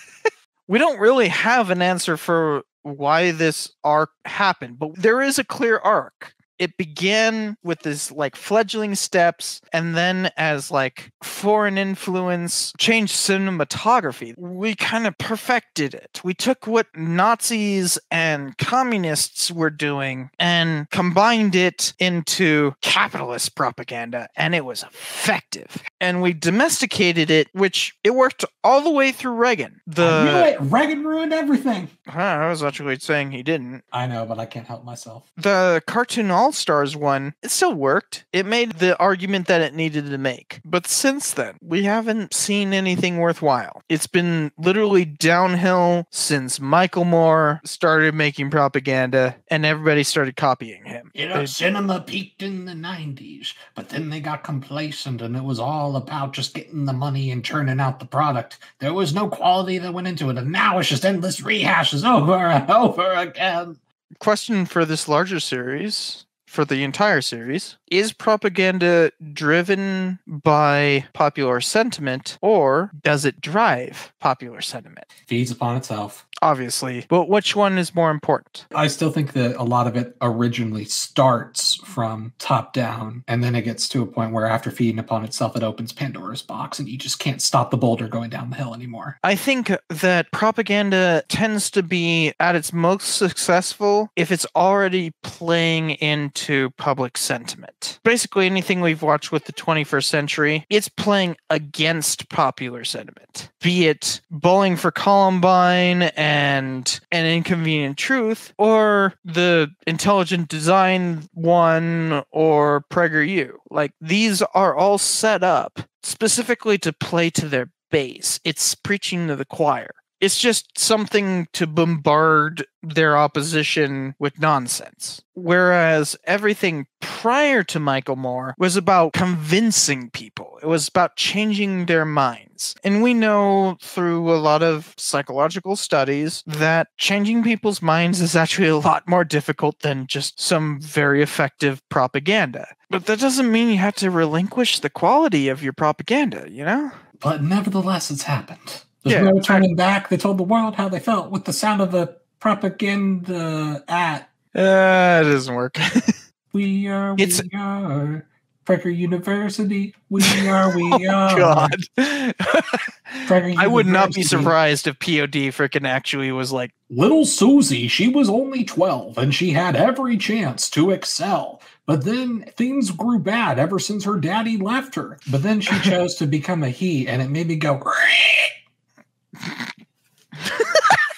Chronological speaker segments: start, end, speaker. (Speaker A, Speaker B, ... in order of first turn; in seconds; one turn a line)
Speaker A: 0.7-30.5
Speaker B: 30.0-31.9
Speaker A: 32.1-33.8
Speaker B: 33.9-35.2
Speaker A: 35.4-51.5
Speaker B: 51.1-63.8
Speaker A: 64.2-75.0
Speaker B: 75.3-76.2
Speaker A: 76.4-78.7
Speaker B: 78.7-89.2
Speaker A: 89.2-146.9
Speaker B: 147.2-154.3
Speaker A: 149.1-149.6
Speaker A: 154.5-156.2
Speaker B: 156.5-161.8
Speaker A: 157.2-157.4
Speaker A: 160.2-166.7
Speaker B: 163.2-164.5
Speaker B: 166.9-178.5
Speaker A: 180.6-180.9